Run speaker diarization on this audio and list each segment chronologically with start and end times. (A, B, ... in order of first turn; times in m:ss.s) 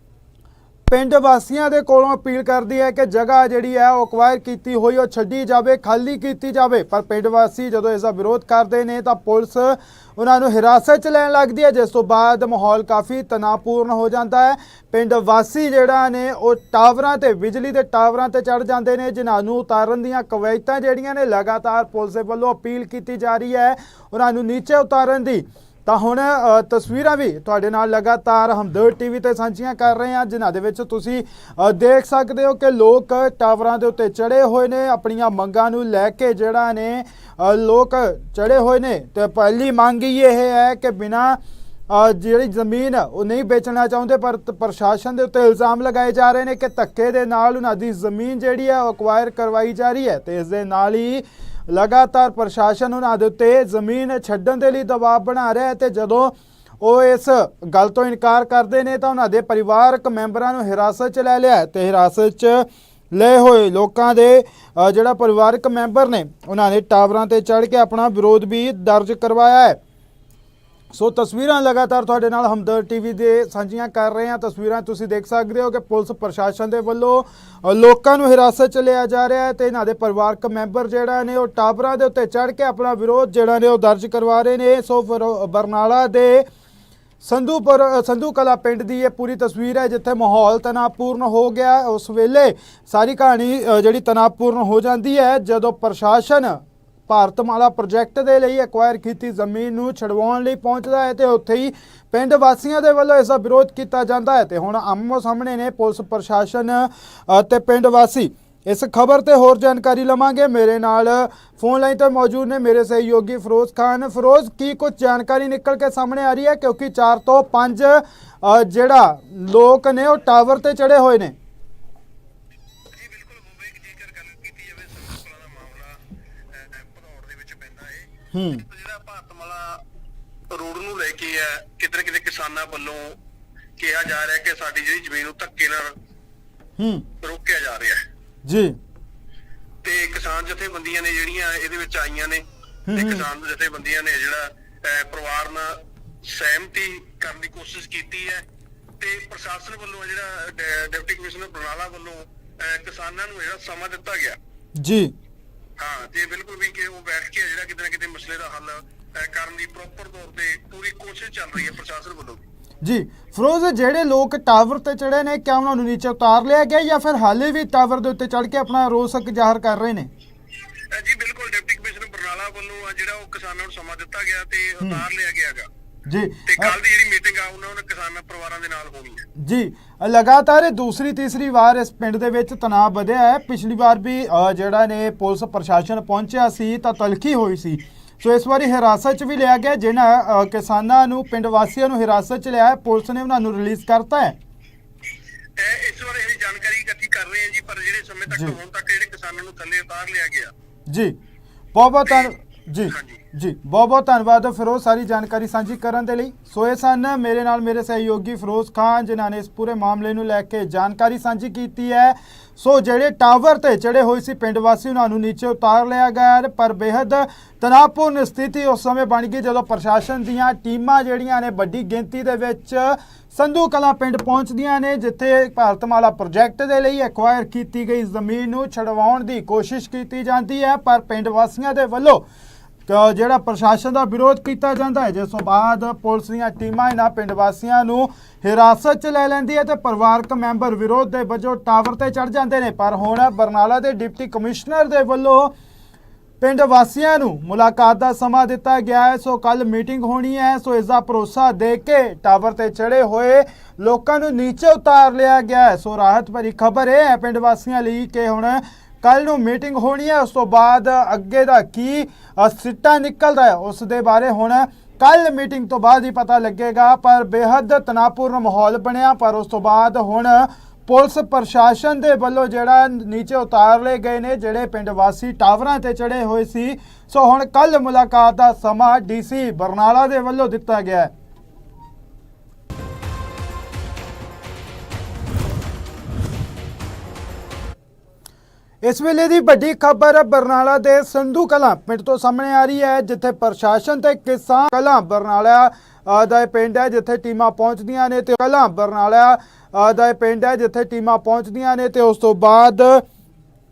0:00.9-0:41.4 A
0:41.9-1:09.8 A
1:10.9-1:26.4 A
1:27.2-2:01.3 A
2:02.9-2:06.0 B
2:06.5-2:09.8 B
2:08.3-2:08.6 A
2:10.5-2:13.2 B
2:13.8-2:15.9 B
2:16.8-2:17.0 A
2:17.2-2:18.0 B
2:18.4-2:18.8 A
2:19.8-2:28.4 B
2:22.9-2:23.2 A
2:29.0-2:34.4 B
2:34.8-2:35.1 A
2:35.8-2:42.4 B
2:42.8-2:50.1 A
2:50.9-2:55.7 B
2:56.0-2:56.7 A
2:56.5-2:59.2 B
2:59.4-3:14.4 A
3:15.6-3:20.5 B
3:18.3-3:18.6 A
3:20.9-3:21.2 A
3:21.7-3:52.2 A
3:22.0-3:22.3 B
3:22.9-3:23.2 B
3:52.9-4:05.5 A
4:06.4-4:41.1 A
4:48.8-5:03.0 A